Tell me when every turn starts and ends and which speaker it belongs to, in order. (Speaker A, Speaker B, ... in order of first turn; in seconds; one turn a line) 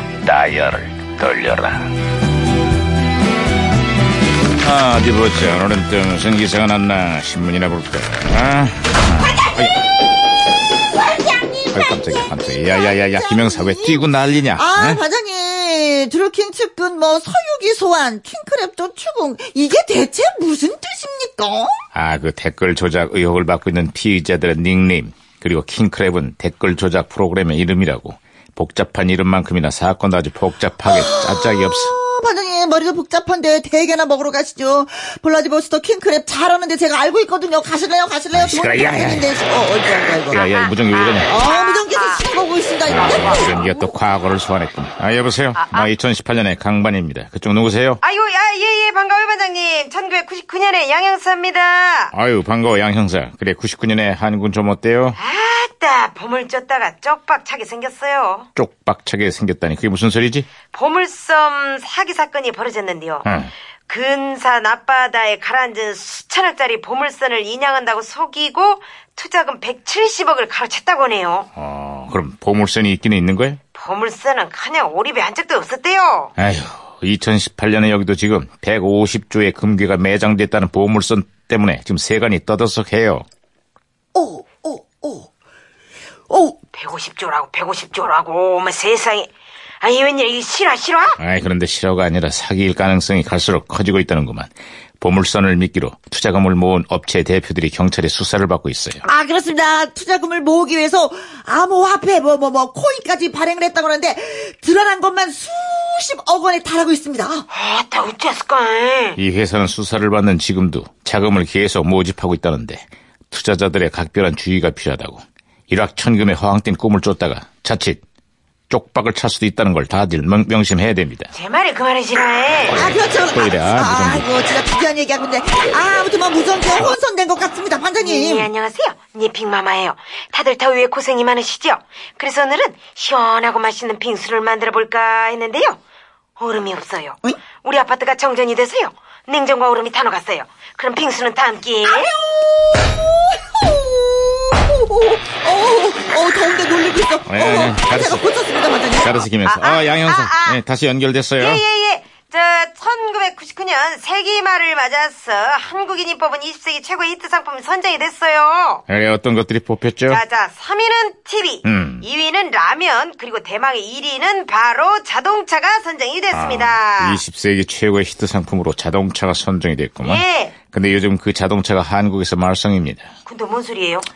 Speaker A: 0.2-1.9
Speaker A: 4.6-9.8
Speaker B: 10.9-21.8
Speaker A: 11.7-15.0
Speaker A: 21.9-31.9
Speaker B: 30.9-40.5
Speaker A: 38.3-39.3
Speaker A: 40.3-41.4
Speaker C: 40.3-42.3
Speaker B: 41.3-43.7
Speaker A: 42.9-48.0
Speaker C: 43.1-43.6
Speaker C: 45.6-45.9
Speaker C: 48.0-52.1
Speaker A: 52.1-55.2
Speaker C: 55.2-58.5
Speaker A: 58.6-60.5
Speaker C: 60.7-63.3
Speaker A: 63.2-63.5
Speaker C: 63.9-71.5
Speaker A: 71.6-73.6
Speaker C: 73.7-76.3
Speaker A: 76.4-83.3
Speaker B: 84.2-85.3
Speaker B: 86.3-86.6
Speaker C: 86.7-91.2
Speaker A: 91.2-99.0
Speaker B: 99.0-107.5
Speaker C: 107.5-109.2
Speaker A: 109.2-118.0
Speaker A: 118.7-121.3
Speaker C: 121.3-122.8
Speaker A: 122.7-124.3
Speaker B: 122.8-128.5
Speaker C: 128.0-135.8
Speaker C: 136.4-142.2
Speaker B: 141.9-149.3
Speaker A: 147.3-148.2
Speaker A: 149.0-151.6
Speaker C: 149.4-150.6
Speaker C: 151.4-158.8
Speaker A: 158.9-160.2
Speaker C: 160.1-167.2
Speaker A: 161.7-162.1
Speaker A: 166.3-173.1
Speaker C: 170.0-170.6
Speaker C: 173.3-174.1